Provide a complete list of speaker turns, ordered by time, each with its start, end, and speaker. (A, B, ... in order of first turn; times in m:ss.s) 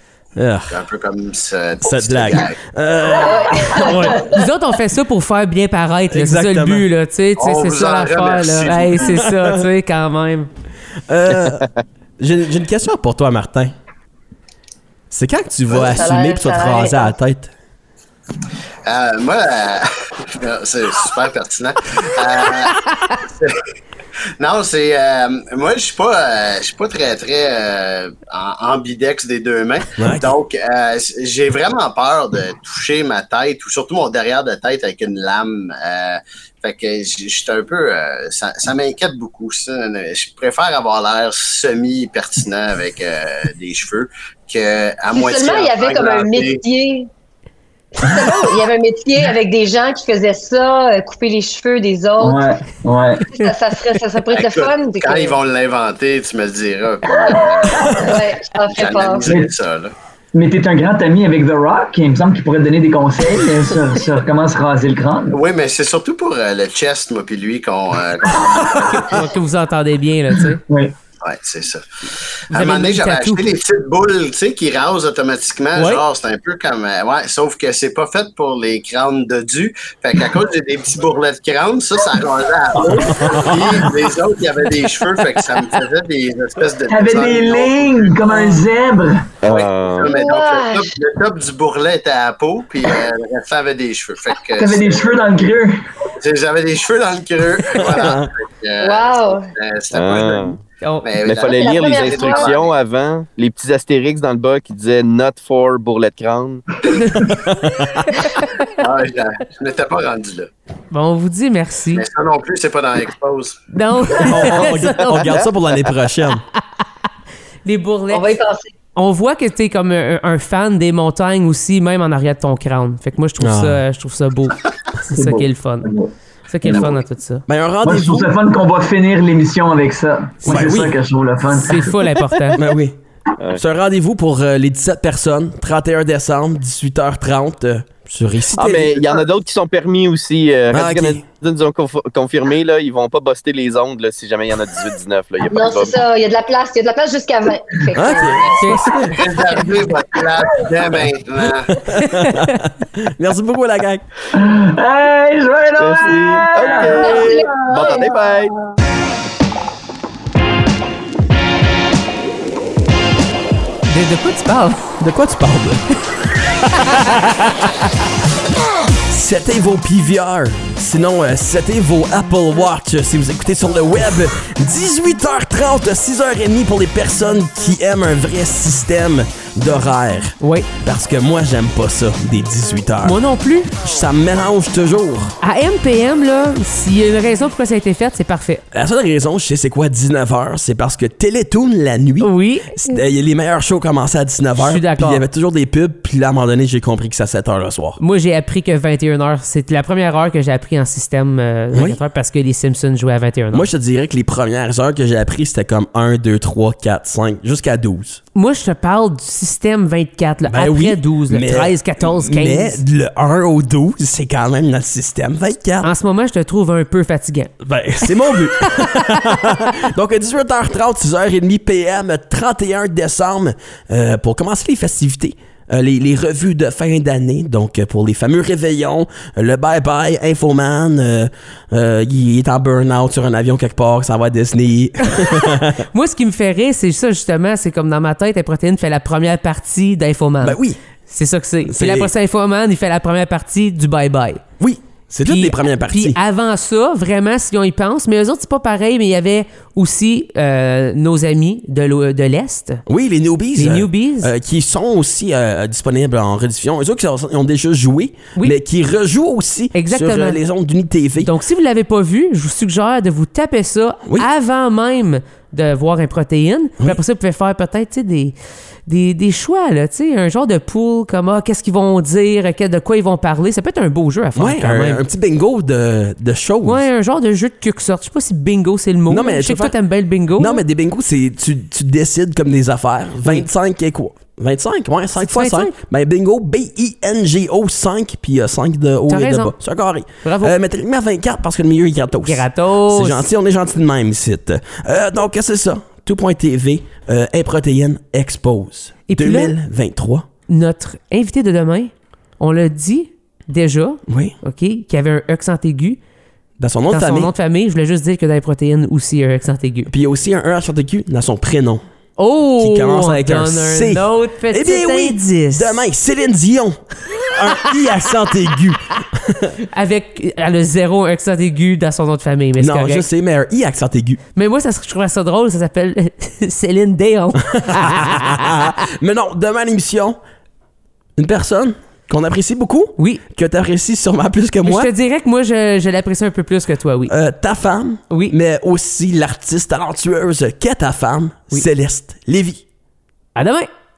0:00.4-0:00.8 A
0:00.7-0:02.6 B
0:01.8-0:04.4 A
0:03.2-0:04.2 C
0:04.2-0:10.5 D
0:06.1-0:06.8 A
0:07.4-0:09.2 B
0:09.1-0:09.7 A
0:11.1-0:11.7 A
0:11.5-0:11.8 E
0:12.2-0:13.7 A
0:15.1-0:17.5 A
0:15.8-0:17.1 C
0:18.9-0:23.6 B
0:24.4-0:46.6 B
0:30.0-0:30.4 A
0:45.1-0:47.1 C
0:48.0-0:52.4 C
0:52.2-0:53.3 F
0:53.3-0:55.4 C
0:54.3-0:59.9 B
0:57.3-0:59.3 C
0:57.7-0:58.0 F
1:00.3-1:05.4 F
1:05.3-1:09.2 B
1:08.4-1:10.6 D
1:10.7-1:11.0 F
1:11.2-1:28.4 B
1:12.5-1:13.4 D
1:15.8-1:16.0 D
1:23.0-1:23.8 A
1:26.9-1:29.4 F
1:29.4-1:30.1 E
1:29.4-1:35.2 B
1:30.0-1:31.0 C
1:34.6-1:35.8 F
1:36.2-1:42.7 B
1:37.6-1:38.3 A
1:38.8-1:39.5 C
1:39.9-1:40.6 E
1:40.8-1:41.1 D
1:41.2-1:46.6 E
1:41.5-1:42.6 C
1:47.2-1:48.1 A
1:48.7-1:50.5 B
1:50.9-1:52.0 D
1:52.0-1:53.6 B
1:53.7-1:55.2 D
1:54.2-1:56.4 A
1:54.3-1:56.0 E
1:57.6-1:58.3 D
1:58.1-1:58.7 C
1:59.0-2:05.9 D
2:03.4-2:03.8 A
2:05.1-2:06.1 F
2:06.5-2:07.5 D
2:06.6-2:06.9 F
2:07.5-2:08.3 A
2:07.8-2:12.0 F
2:10.4-2:10.8 D
2:10.5-2:11.0 A
2:11.5-2:12.6 D
2:12.6-2:13.0 A
2:13.5-2:19.2 A
2:18.6-2:25.9 E
2:20.7-2:21.2 A
2:25.5-2:28.8 C
2:28.0-2:29.2 A
2:28.5-2:29.0 D
2:29.0-2:31.8 B
2:31.7-2:34.0 A
2:32.2-2:32.5 D
2:34.3-2:38.4 F
2:35.8-2:38.6 E
2:36.9-2:38.1 C
2:43.9-2:44.9 D
2:45.0-2:46.2 A
2:46.8-2:47.3 A
2:49.1-3:03.2 A
3:00.4-3:00.7 D
3:03.0-3:03.8 D
3:03.8-3:05.4 A
3:05.4-3:08.6 D
3:08.7-3:18.0 A
3:12.2-3:13.0 D
3:14.6-3:15.2 D
3:18.0-3:23.7 D
3:21.7-3:22.0 A
3:23.5-3:28.2 A
3:28.4-3:32.8 D
3:30.5-3:35.9 A
3:35.8-3:37.6 D
3:37.6-3:55.9 A
3:55.9-4:04.4 D
4:00.4-4:00.8 A
4:01.7-4:02.1 A
4:04.6-4:06.2 A
4:05.2-4:12.8 D
4:12.9-4:21.3 A
4:13.6-4:14.3 D
4:19.8-4:20.4 D
4:21.2-4:28.4 D
4:28.9-4:35.0 D
4:34.4-4:36.8 A
4:36.6-4:40.6 D
4:39.1-4:39.8 A
4:40.4-5:00.3 A
4:45.2-4:45.7 D
4:49.1-4:49.5 D
4:50.2-4:50.5 D
4:52.3-4:53.2 D
4:59.1-4:59.5 D
5:00.5-5:06.0 D
5:04.1-5:04.4 A
5:06.6-5:07.3 A
5:06.9-5:09.9 D
5:09.9-5:11.8 A
5:12.2-5:15.8 D
5:12.6-5:19.6 A
5:19.7-5:23.0 D
5:22.6-5:24.2 A
5:24.4-5:28.5 D
5:27.5-5:30.2 A
5:31.2-5:34.9 A
5:34.6-5:37.1 D
5:37.1-5:42.6 A
5:43.4-5:43.7 D